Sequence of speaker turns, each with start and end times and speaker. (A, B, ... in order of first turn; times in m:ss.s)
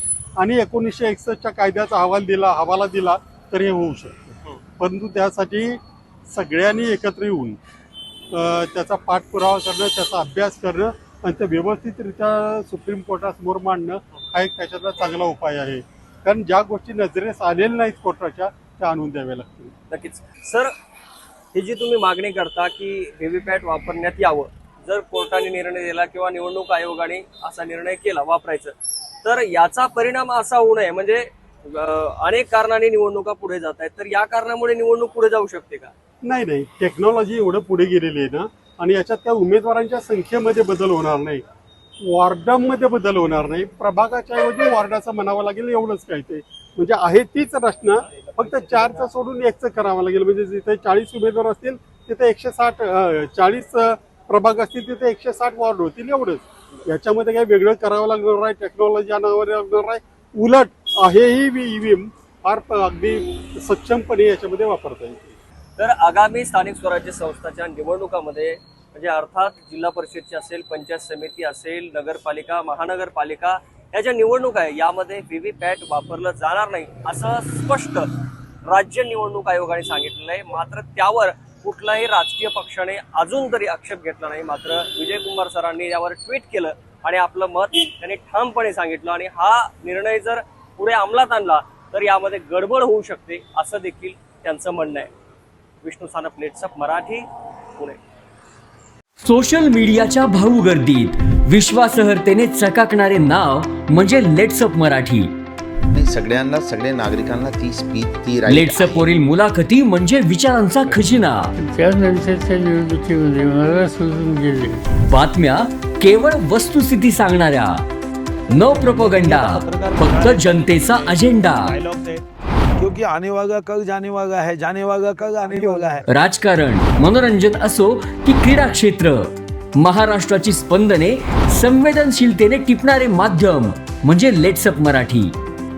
0:00.4-0:07.6 A
0:08.3-0:19.7 A
0:19.9-0:20.7 B
0:21.5-0:35.9 B
0:36.2-0:41.4 A
0:42.0-1:05.4 A
1:05.8-1:18.1 B
1:18.7-1:35.1 B
1:35.8-1:37.2 B
1:39.2-1:45.3 C
1:45.9-1:49.1 D
1:48.5-1:51.5 C
1:50.8-1:54.8 E
1:55.1-1:57.8 C
1:58.5-2:01.7 C
1:58.5-2:02.2 F
2:02.8-2:06.1 F
2:06.1-2:15.3 C